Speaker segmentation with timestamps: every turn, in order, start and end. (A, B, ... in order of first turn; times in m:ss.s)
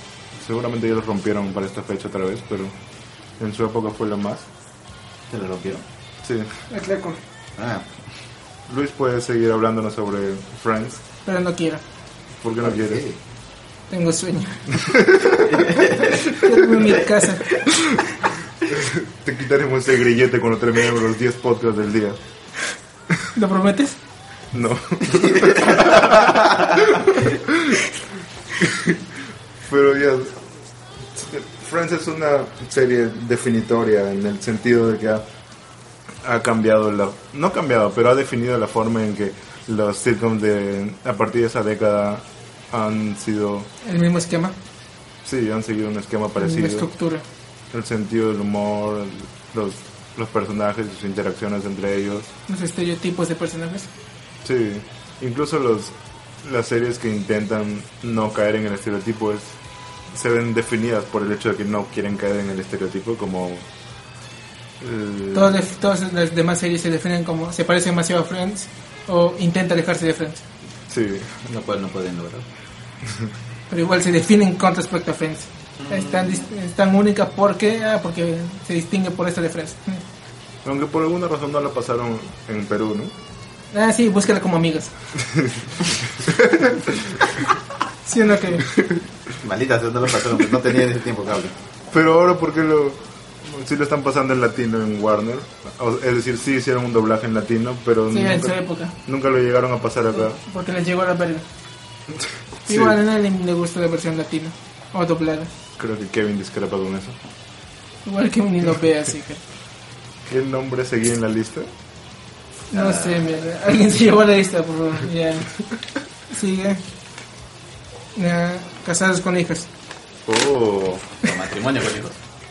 0:00.4-0:02.7 A
0:03.4-0:04.5 A
0:05.3-0:05.8 B
0:06.2-0:06.5 A
0:06.7-0:07.2 C
0:07.6-0:07.9 B
0:08.7-0:11.0 A
0:11.2-0:11.8 C
0:12.4-0:13.0 A
0:12.7-0:13.2 B
0:13.9-0:14.8 C
0:14.7-0:15.7 A
0:15.4-0:16.4 B
0:16.2-0:17.5 C
0:18.7-0:22.2 A
0:23.3-0:24.0 C
0:24.5-0:27.8 A
0:28.6-0:29.0 A
0:29.7-0:30.5 A
0:31.1-0:35.2 A
0:36.2-0:43.7 A
0:43.8-0:44.6 C
0:45.2-0:46.9 A
0:46.4-0:47.2 C
0:47.7-0:52.3 A
0:52.5-0:53.9 C
0:54.4-0:59.6 A
1:00.1-1:03.7 A
1:04.8-1:05.6 A
1:05.3-1:10.4 C
1:10.9-1:11.4 A
1:11.4-1:12.4 B
1:13.0-1:13.3 A
1:13.7-1:20.0 C
1:15.8-1:16.4 B
1:20.6-1:23.1 A
1:23.7-1:24.9 C
1:25.2-1:27.3 A
1:28.0-1:28.7 C
1:29.3-1:31.5 B
1:31.9-1:40.4 A
1:38.1-1:38.9 C
1:40.3-1:41.4 C
1:42.6-1:43.0 A
1:42.6-1:45.5 C
1:45.8-1:47.2 A
1:48.0-1:49.4 C
1:50.2-1:51.7 A
1:52.7-1:55.6 C
1:52.7-1:53.3 B
1:56.3-1:56.8 C
1:58.1-1:59.7 C
2:00.2-2:01.0 A
2:01.2-2:02.2 B